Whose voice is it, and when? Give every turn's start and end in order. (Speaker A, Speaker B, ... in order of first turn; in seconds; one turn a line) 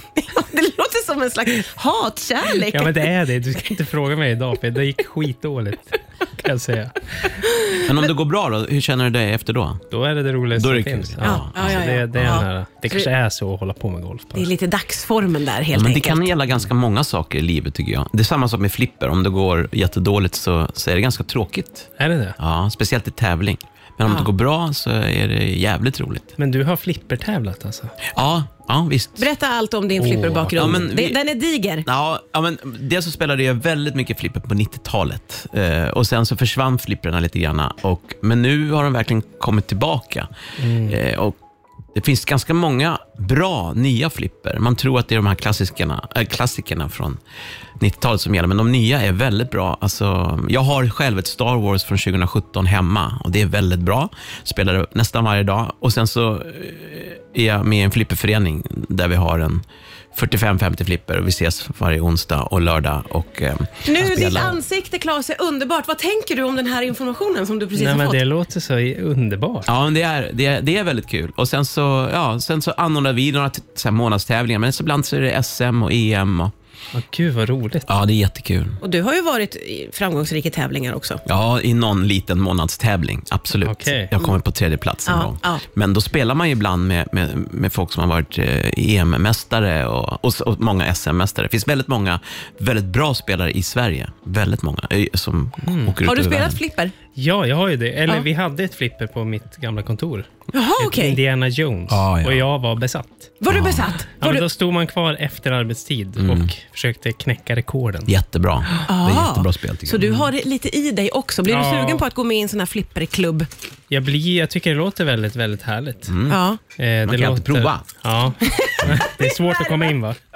Speaker A: 0.2-3.1
Speaker B: 2.6-7.5
Speaker A: 7.4-7.8
Speaker C: 7.8-9.8
Speaker B: 9.9-14.5
Speaker C: 10.6-12.4
Speaker A: 11.2-13.1
Speaker A: 14.3-16.3
Speaker C: 15.7-21.9
Speaker B: 22.0-22.4
Speaker C: 22.4-26.3
Speaker B: 26.4-28.0
Speaker C: 28.1-29.3
Speaker A: 29.2-31.9
Speaker B: 30.0-30.9
Speaker C: 30.6-31.2
Speaker C: 31.9-40.3
Speaker B: 40.6-41.0
Speaker C: 40.8-41.4
Speaker C: 41.9-47.2
Speaker C: 47.8-64.6
Speaker A: 63.9-68.2
Speaker B: 67.8-69.7
Speaker C: 69.7-76.5
Speaker B: 76.9-77.9
Speaker C: 77.9-78.8
Speaker A: 78.8-81.2
Speaker C: 81.2-96.6
Speaker B: 83.6-84.1
Speaker A: 85.1-85.6
Speaker B: 95.7-96.0
Speaker A: 96.0-96.9
Speaker B: 97.2-103.3
Speaker A: 100.5-101.2
Speaker C: 101.9-102.4
Speaker A: 103.4-104.5
Speaker C: 103.5-103.9
Speaker B: 104.2-108.1
Speaker C: 106.2-106.5
Speaker C: 108.1-110.2
Speaker A: 108.8-113.5
Speaker B: 111.5-112.1
Speaker B: 113.9-116.1
Speaker C: 116.1-116.4
Speaker A: 116.3-116.6
Speaker B: 116.8-120.2
Speaker C: 117.0-117.9
Speaker A: 118.4-119.9